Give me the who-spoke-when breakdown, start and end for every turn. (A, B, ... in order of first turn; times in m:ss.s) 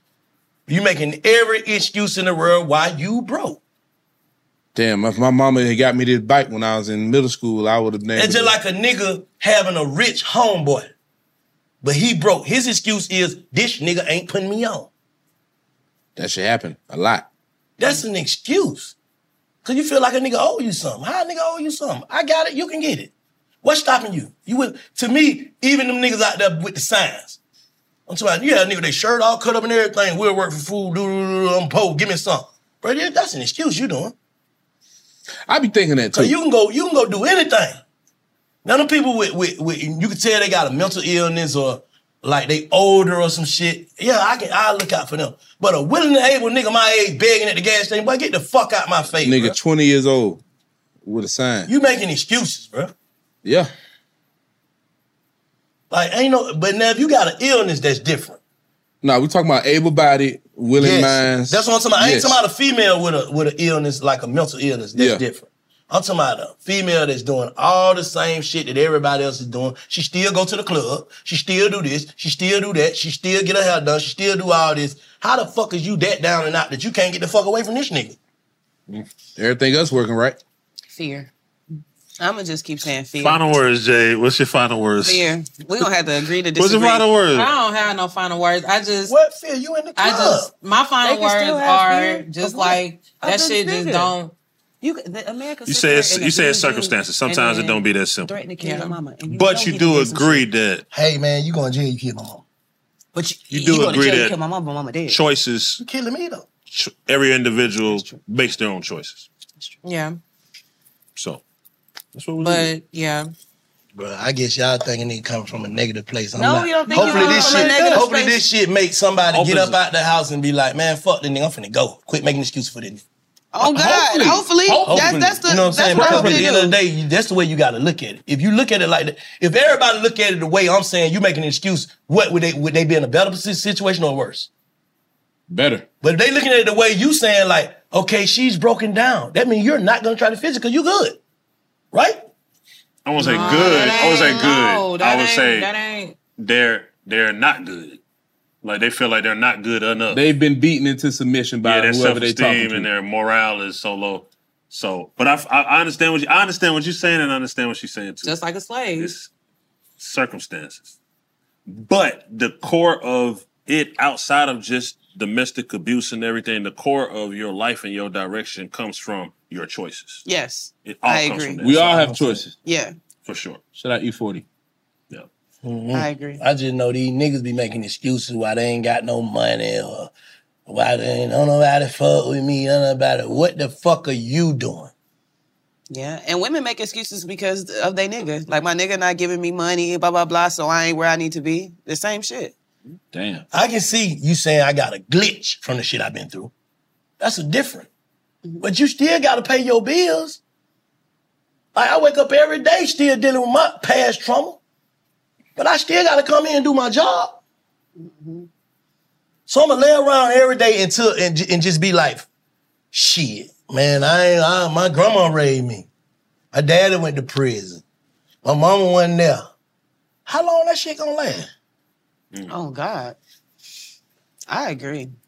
0:00.7-0:03.6 A
0:04.7-0:08.5 B
0:08.1-0:10.9 A
0:11.8-0:14.9 A
0:16.2-0:17.2 B
0:17.8-0:19.0 A
0:19.6-0:23.1 A
0:23.6-0:27.4 A
0:28.1-0:34.1 A
0:35.5-0:36.3 B
0:36.1-0:37.8 A
0:38.6-0:49.6 A
0:49.2-0:50.4 B
0:51.0-0:51.7 B
0:51.7-0:52.9 A
0:53.4-0:53.7 B
0:55.9-0:58.4 A
0:59.0-1:02.4 B
1:00.8-1:18.2 A
1:05.0-1:05.2 B
1:19.4-1:20.4 B
1:20.9-1:21.3 C
1:22.2-1:23.6 D
1:23.2-1:25.3 E
1:25.0-1:27.1 D
1:26.5-1:27.5 E
1:27.3-1:29.1 C
1:29.0-1:30.5 A
1:30.0-1:34.3 C
1:31.0-1:34.1 D
1:34.8-1:40.5 D
1:35.6-1:38.3 E
1:38.6-1:38.9 C
1:39.3-1:40.8 E
1:40.9-1:42.4 A
1:43.1-1:45.2 D
1:43.5-1:44.4 E
1:45.1-1:45.8 E
1:45.8-1:46.5 A
1:46.7-1:49.3 E
1:47.8-1:48.2 D
1:49.8-1:50.2 C
1:51.2-1:51.4 E
1:52.1-1:52.7 E
1:52.4-1:53.3 C
1:53.9-2:03.0 A
1:56.3-1:58.4 D
1:56.9-1:57.7 C
1:57.6-1:58.0 B
1:59.3-1:59.8 E
2:03.5-2:06.7 D
2:03.6-2:06.5 B
2:04.8-2:14.5 A
2:15.5-2:15.8 B
2:16.0-2:21.2 A
2:21.9-2:22.2 A
2:23.0-2:25.7 E
2:23.2-2:26.2 C
2:23.5-2:24.2 D
2:26.4-2:28.0 E
2:28.6-2:30.2 E
2:30.1-2:32.9 B
2:31.6-2:38.4 E
2:38.2-2:39.1 C
2:39.0-2:39.3 E
2:40.0-2:40.9 E
2:41.7-2:50.2 E
2:50.2-2:51.6 D
2:50.8-2:52.2 E
2:51.6-2:52.5 B
2:52.6-2:52.9 D
2:53.2-2:53.6 E
2:53.7-2:54.4 B
2:55.6-3:00.1 A
2:55.9-2:56.4 D
3:00.7-3:04.9 A
3:05.9-3:12.5 D
3:13.1-3:13.4 B
3:13.5-3:16.5 A
3:17.2-3:17.9 A
3:18.6-3:20.4 A
3:21.7-3:24.6 A
3:25.6-3:27.4 A
3:28.0-3:28.5 D
3:29.5-3:32.3 A
3:32.9-3:35.9 A
3:36.5-3:37.8 A
3:38.4-3:39.5 A
3:40.2-3:41.5 A
3:42.5-3:43.2 D
3:44.5-3:45.1 D